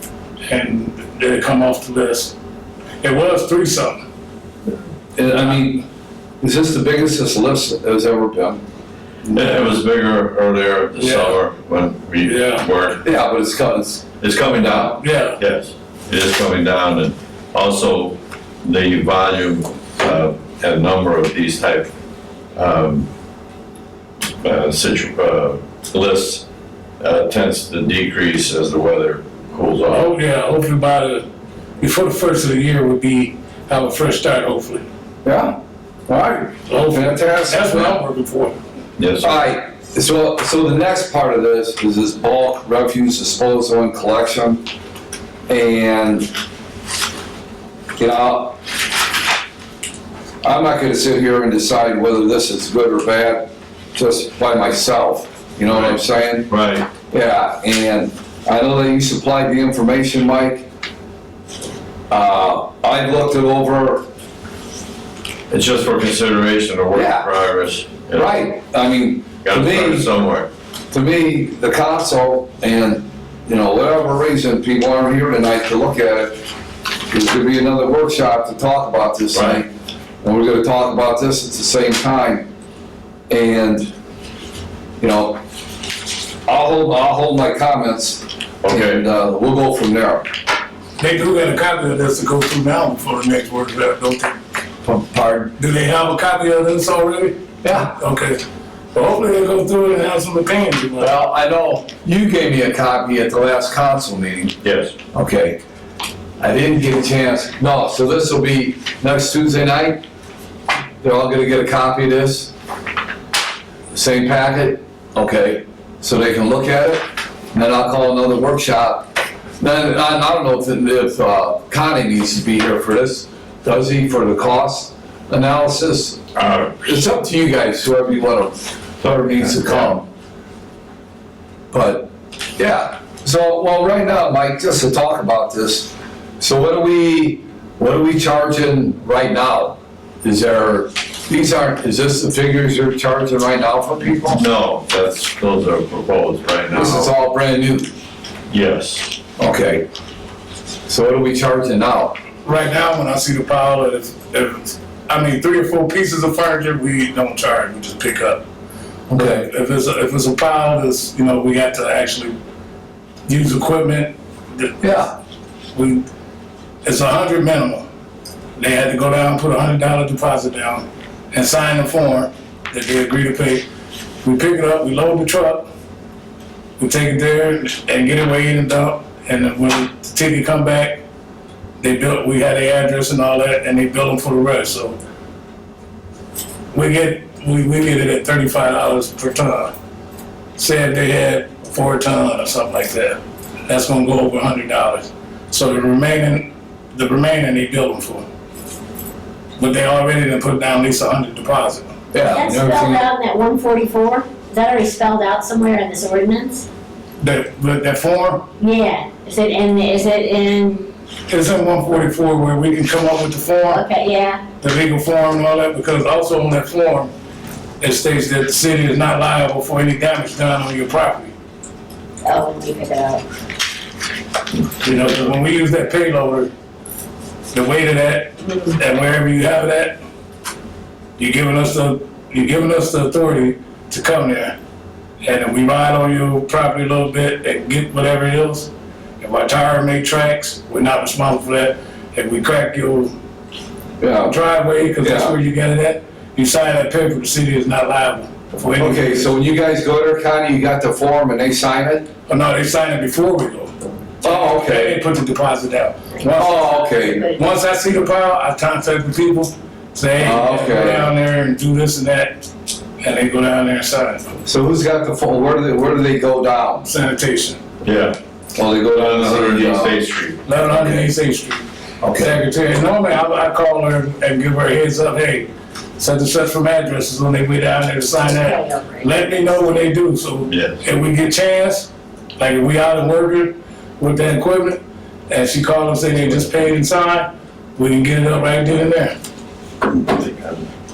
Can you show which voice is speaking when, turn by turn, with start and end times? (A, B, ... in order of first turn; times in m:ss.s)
0:00.5-0:02.3 A
0:03.0-0:04.0 A
0:05.2-0:05.8 B
0:06.4-0:08.6 B
0:09.2-0:09.7 A
0:09.3-0:13.0 C
0:11.0-0:11.4 A
0:12.2-0:12.7 A
0:13.0-0:14.9 B
0:14.2-0:21.9 C
0:15.0-0:15.4 A
0:22.5-0:23.1 C
0:24.4-0:26.4 C
0:27.0-0:30.1 C
0:29.9-0:31.2 A
0:31.8-0:34.8 A
0:35.2-0:38.0 B
0:36.7-0:38.6 A
0:39.0-0:39.3 C
0:39.2-0:44.6 B
0:45.5-0:46.3 B
0:48.0-0:48.6 B
0:50.4-0:56.5 B
0:55.7-0:56.9 C
0:57.1-1:00.6 B
1:02.1-1:04.0 B
1:05.5-1:08.5 C
1:06.9-1:07.3 B
1:08.1-1:10.1 B
1:09.4-1:10.5 C
1:10.9-1:16.4 B
1:17.1-1:19.7 B
1:19.3-1:19.6 C
1:20.2-1:22.5 B
1:23.3-1:23.9 B
1:25.0-1:25.4 B
1:26.4-1:30.2 B
1:28.6-1:29.0 C
1:31.0-1:34.4 A
1:34.8-1:35.6 B
1:35.6-1:38.4 A
1:37.6-1:37.9 B
1:38.9-1:41.2 A
1:41.0-1:44.6 B
1:44.6-1:44.9 C
1:45.1-1:45.6 B
1:46.4-1:50.0 B
1:51.0-1:52.5 B
1:53.9-2:06.3 B
2:06.4-2:06.9 C
2:06.8-2:10.0 B
2:09.2-2:09.9 C
2:11.7-2:24.4 B
2:24.2-2:27.1 C
2:26.7-2:27.9 B
2:28.5-2:29.2 C
2:29.4-2:29.8 B
2:30.9-2:32.2 B
2:32.4-2:38.4 A
2:39.1-2:39.5 B
2:39.1-2:42.3 A
2:43.3-2:45.0 A
2:44.8-2:45.1 B
2:45.7-2:46.0 A
2:46.8-2:47.8 A
2:48.6-2:53.6 A
2:54.2-2:55.7 A
2:56.8-3:01.0 A
3:01.8-3:05.0 A
3:06.7-3:09.7 A
3:10.6-3:18.2 A
3:19.6-3:21.9 A
3:22.1-3:23.0 B
3:22.2-3:26.6 D
3:27.2-3:28.4 A
3:28.6-3:30.9 D
3:31.3-3:33.8 A
3:33.7-3:34.4 D
3:34.6-3:37.1 A
3:37.8-3:41.3 A
3:42.2-3:43.2 D
3:44.8-3:46.5 A
3:47.5-3:50.0 A
3:51.2-3:54.6 A
3:55.2-4:03.1 A
4:04.0-4:04.4 B
4:04.2-4:09.3 A
4:05.0-4:05.4 B
4:08.8-4:12.0 B
4:12.3-4:22.4 A
4:14.2-4:15.0 B
4:16.4-4:17.3 B
4:16.4-4:17.4 D
4:20.2-4:21.1 B
4:23.0-4:24.3 A
4:24.4-4:26.8 B
4:26.8-4:27.6 A
4:27.8-4:28.2 C
4:28.5-4:30.0 B
4:28.9-4:30.4 C
4:30.4-4:31.6 A
4:30.5-4:31.1 B
4:32.0-4:32.4 B
4:32.2-4:49.1 A
4:38.3-4:39.2 D
4:40.5-4:40.8 C
4:49.8-4:50.7 C